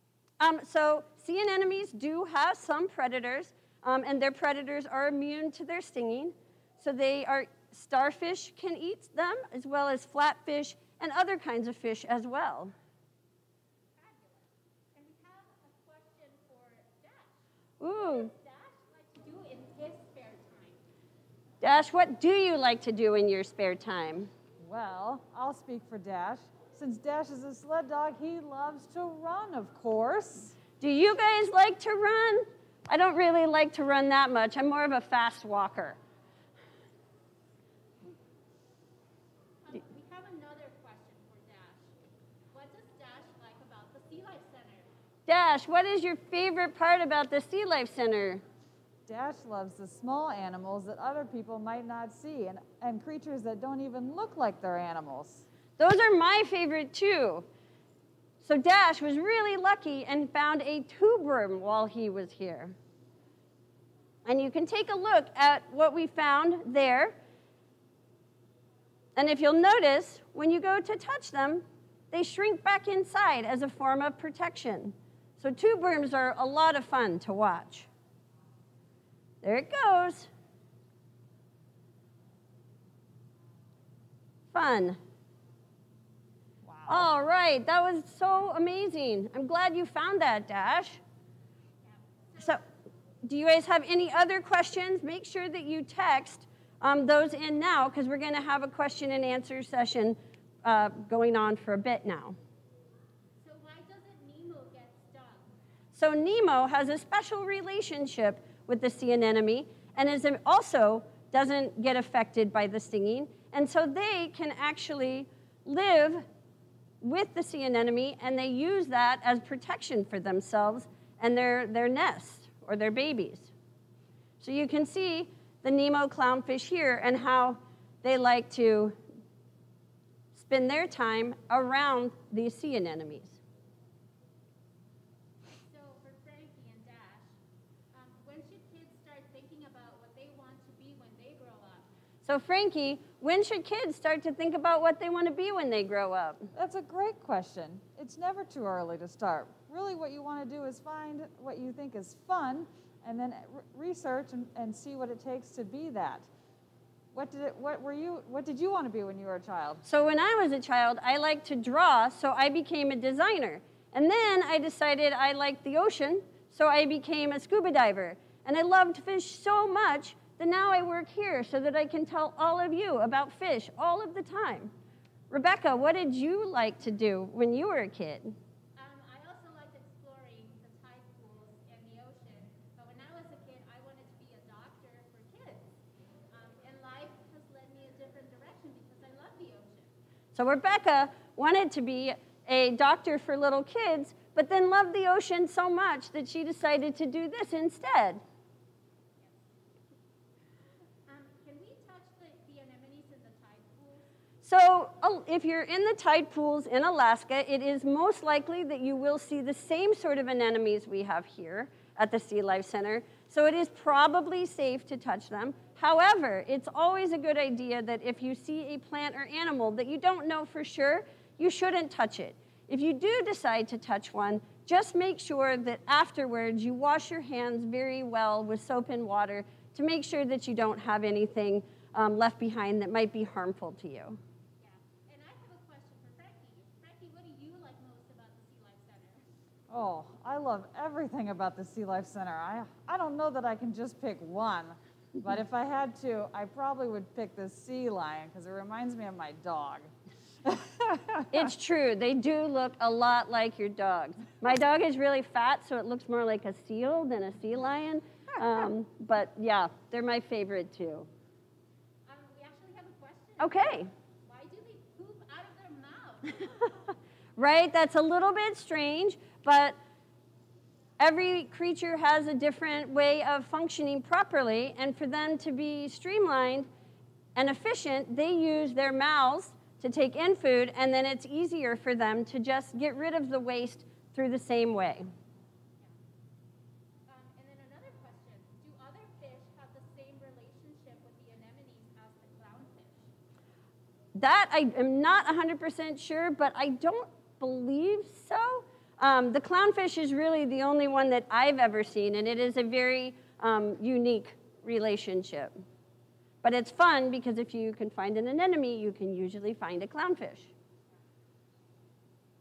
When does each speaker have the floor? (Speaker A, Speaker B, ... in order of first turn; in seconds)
Speaker A: 0.4-12.7, 17.8-18.3, 21.6-24.3, 30.8-36.0, 45.3-48.4, 55.8-57.5, 58.4-62.8, 64.2-67.2, 69.2-77.9, 79.4-80.3, 84.5-85.0, 86.9-91.0, 92.4-92.6, 93.2-102.4, 105.9-116.2, 117.0-123.5, 124.4-129.0, 130.3-133.4, 142.2-146.5, 159.8-174.7, 175.3-178.3, 190.3-198.2, 204.4-234.2, 251.3-261.1, 263.4-263.9, 267.4-269.8, 271.0-276.7, 277.4-285.0, 294.2-305.6, 306.4-310.5
Speaker B: 14.0-17.4, 17.9-20.8, 39.6-41.9, 42.5-44.9, 103.4-105.5, 135.7-137.3, 137.9-141.8, 178.8-185.7, 186.3-189.9, 201.1-204.0, 234.6-239.2, 262.1-266.9, 287.1-293.1
Speaker C: 24.6-30.6, 49.1-55.4, 86.6-87.1, 146.6-156.3, 157.1-159.8, 239.7-249.9, 250.4-251.5